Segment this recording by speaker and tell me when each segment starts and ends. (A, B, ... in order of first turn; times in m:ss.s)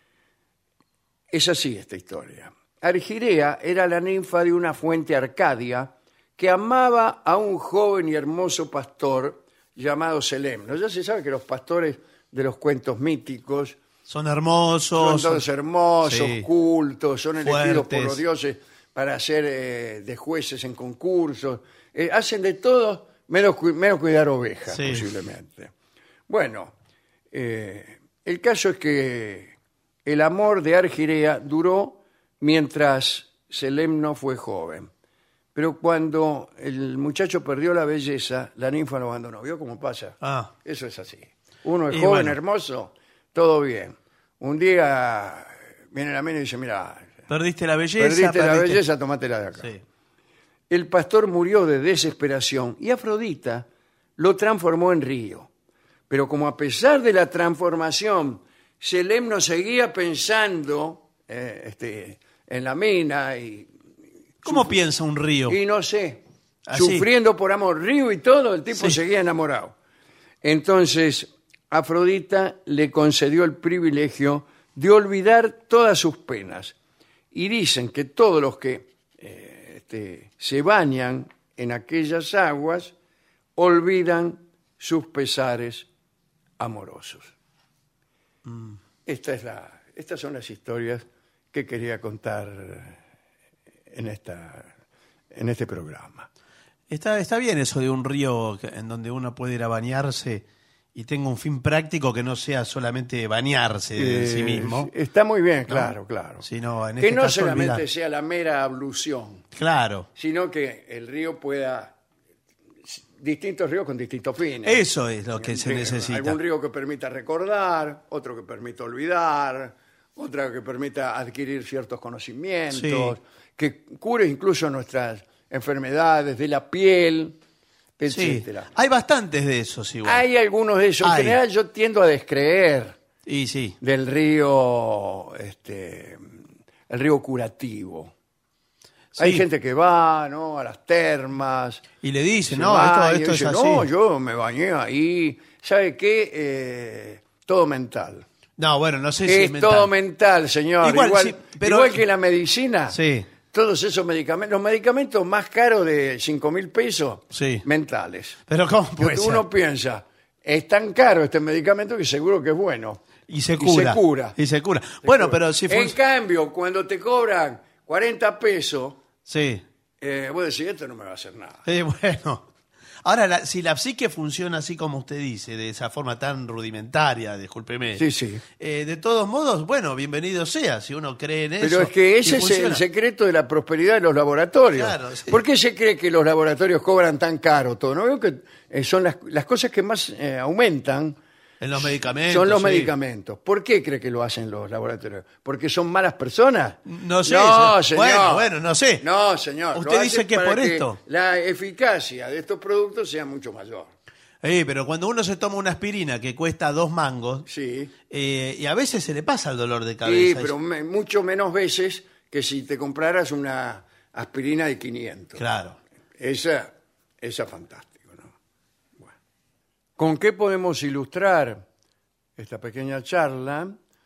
0:01.3-0:13.8 A
0:14.1-0:15.4 B
0:15.0-0:25.7 A
0:16.0-0:16.5 B
0:17.4-0:18.2 B
0:24.7-0:25.0 B
0:26.3-0:26.7 A
0:27.3-0:29.6 A
0:30.1-0:34.9 A
0:35.6-0:47.1 A
0:40.2-0:40.5 B
0:41.9-0:42.4 B
0:47.3-0:48.8 B
0:48.0-0:49.7 A
0:50.7-0:53.7 A
0:54.2-0:55.5 A
0:56.1-1:03.7 A
1:04.4-1:04.7 A
1:04.4-1:05.6 B
1:05.5-1:09.8 A
1:06.7-1:07.1 B
1:10.4-1:16.8 A
1:17.3-1:22.9 A
1:23.6-1:25.9 A
1:26.6-1:27.3 A
1:28.5-1:28.8 B
1:29.1-1:33.0 A
1:33.9-1:34.7 A
1:35.3-1:36.3 A
1:36.9-1:44.9 B
1:44.0-1:46.5 A
1:45.7-1:47.8 B
1:47.0-1:49.4 A
1:49.6-1:50.1 B
1:50.2-1:52.0 A
1:52.9-1:54.8 A
1:54.6-1:56.4 B
1:55.4-2:07.4 A
2:02.7-2:03.2 B
2:08.0-2:08.7 A
2:08.1-2:10.2 B
2:10.0-2:13.0 A
2:11.0-2:11.4 B
2:13.3-2:13.8 B
2:13.8-2:16.2 A
2:16.9-2:18.1 A
2:19.2-2:21.8 A
2:19.2-2:19.4 B
2:22.0-2:23.9 B
2:22.5-2:28.2 A
2:28.6-2:29.9 B
2:29.3-2:38.4 A
2:30.8-2:32.0 B
2:32.9-2:33.3 B
2:37.3-2:37.6 B
2:38.5-2:39.4 B
2:39.0-2:43.0 A
2:43.3-2:46.0 B
2:43.6-2:44.4 A
2:45.0-2:49.0 A
2:49.3-2:49.6 B
2:50.0-2:51.6 A
2:51.6-2:52.4 B
2:53.0-2:58.0 B
2:58.0-2:58.4 A
2:58.6-3:02.8 B
3:01.6-3:11.2 A
3:04.8-3:05.4 B
3:11.6-3:12.9 B
3:11.8-3:23.9 A
3:16.9-3:19.0 B
3:19.7-3:21.0 B
3:24.4-3:27.5 B
3:27.5-3:27.9 A
3:28.1-3:30.5 B
3:30.0-3:35.4 A
3:35.4-3:35.8 B
3:36.2-3:38.3 A
3:40.0-3:41.6 A
3:42.4-3:43.8 A